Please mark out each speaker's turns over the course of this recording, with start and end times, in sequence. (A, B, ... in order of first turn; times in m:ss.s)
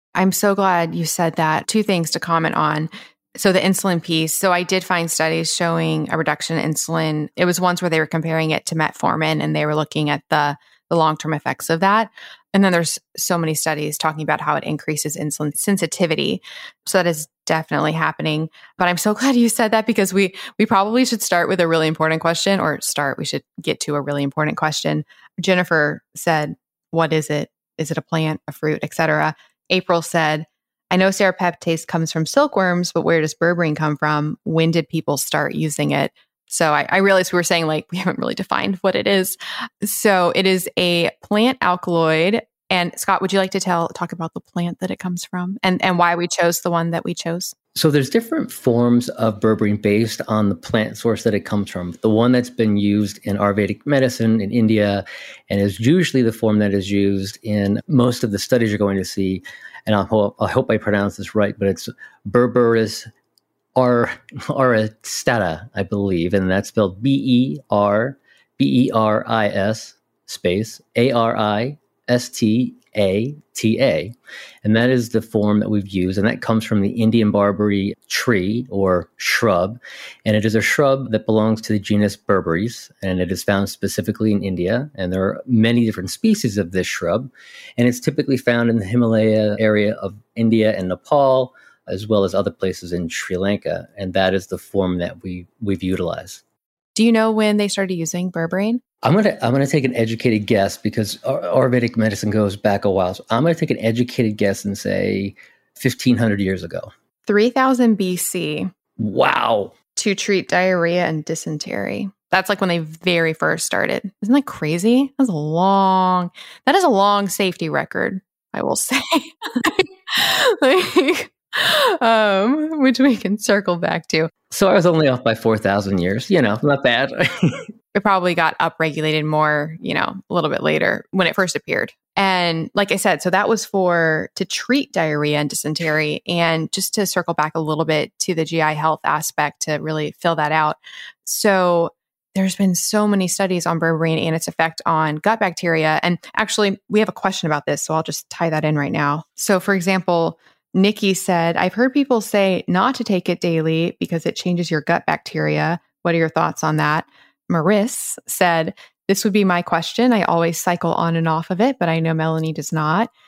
0:00.1-0:47.5 A
0:47.7-1:03.0 B
1:03.8-1:36.4 B
1:36.9-1:38.8 A
1:39.0-1:46.9 B
1:47.3-1:48.7 A
1:49.0-1:49.7 B
1:49.9-2:04.3 A
2:04.5-2:07.7 B
2:07.9-2:43.1 A